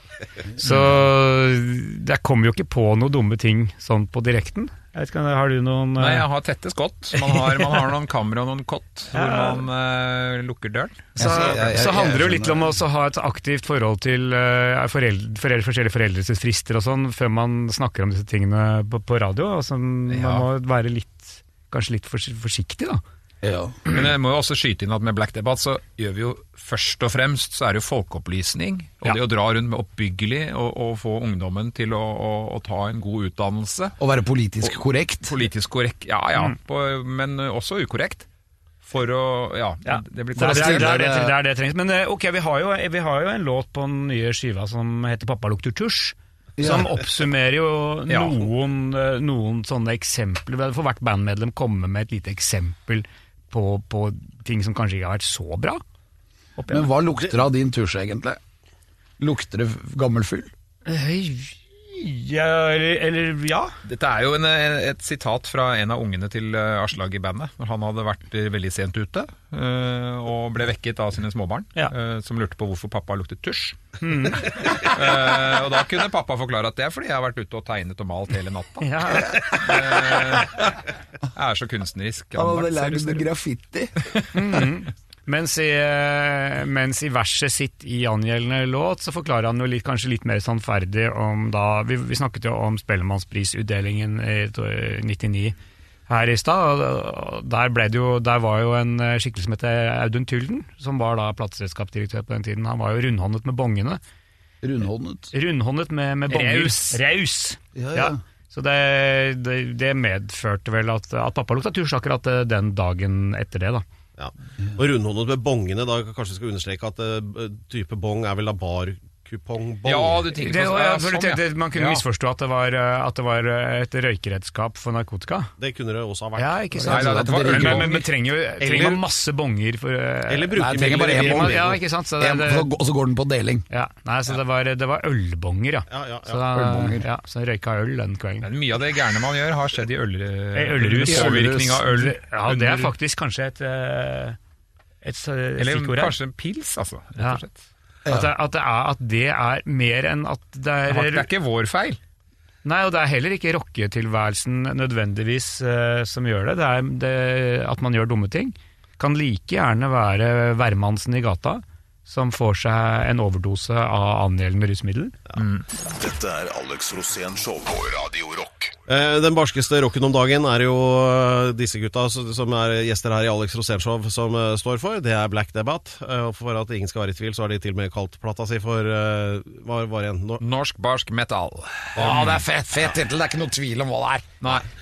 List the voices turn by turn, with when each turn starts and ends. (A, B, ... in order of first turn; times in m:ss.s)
0:00.6-0:06.3 A
0:00.7-0:01.0 B
0:06.0-0:11.3 B
0:07.1-0:07.9 A
0:09.1-0:09.7 A
0:11.2-0:12.7 C
0:11.2-0:23.0 A
0:20.1-0:20.5 B
0:23.4-0:23.8 C
0:23.9-0:33.9 B
0:34.0-0:35.3 C
0:35.2-0:38.3 B
0:38.8-0:41.0 B
0:39.8-0:55.8 A
0:40.4-0:41.4 C
0:46.6-0:46.9 C
0:48.1-0:48.4 B
0:56.6-0:56.9 A
0:56.7-0:58.4 C
0:59.2-1:00.5 C
1:00.9-1:03.8 A
1:03.8-1:13.8 B
1:14.0-1:14.7 A
1:14.7-1:20.8 B
1:18.8-1:19.4 A
1:21.3-1:23.3 B
1:22.3-1:23.9 C
1:24.0-1:24.6 B
1:24.3-1:35.6 A
1:36.1-1:44.0 A
1:44.6-1:45.3 C
1:45.3-1:53.8 A
1:46.3-1:47.0 B
1:47.8-1:48.2 C
1:54.2-2:00.3 D
1:59.8-2:02.0 B
2:00.3-2:05.5 A
2:05.6-2:06.6 D
2:06.4-2:12.7 A
2:06.8-2:07.9 C
2:06.9-2:08.1 B
2:08.6-2:09.0 D
2:10.3-2:11.8 D
2:10.6-2:13.7 C
2:13.7-2:18.5 A
2:15.9-2:16.4 D
2:16.5-2:17.1 C
2:18.4-2:22.9 B
2:20.6-2:24.4 A
2:21.1-2:21.9 C
2:25.0-2:26.2 A
2:25.6-2:27.6 B
2:27.2-2:27.4 A
2:28.1-2:31.3 A
2:30.9-2:32.0 B
2:32.6-2:45.2 A
2:45.4-2:45.6 B
2:45.9-2:48.8 E
2:48.9-3:00.4 D
3:00.4-3:02.4 B
3:02.0-3:04.5 C
3:04.4-3:04.7 B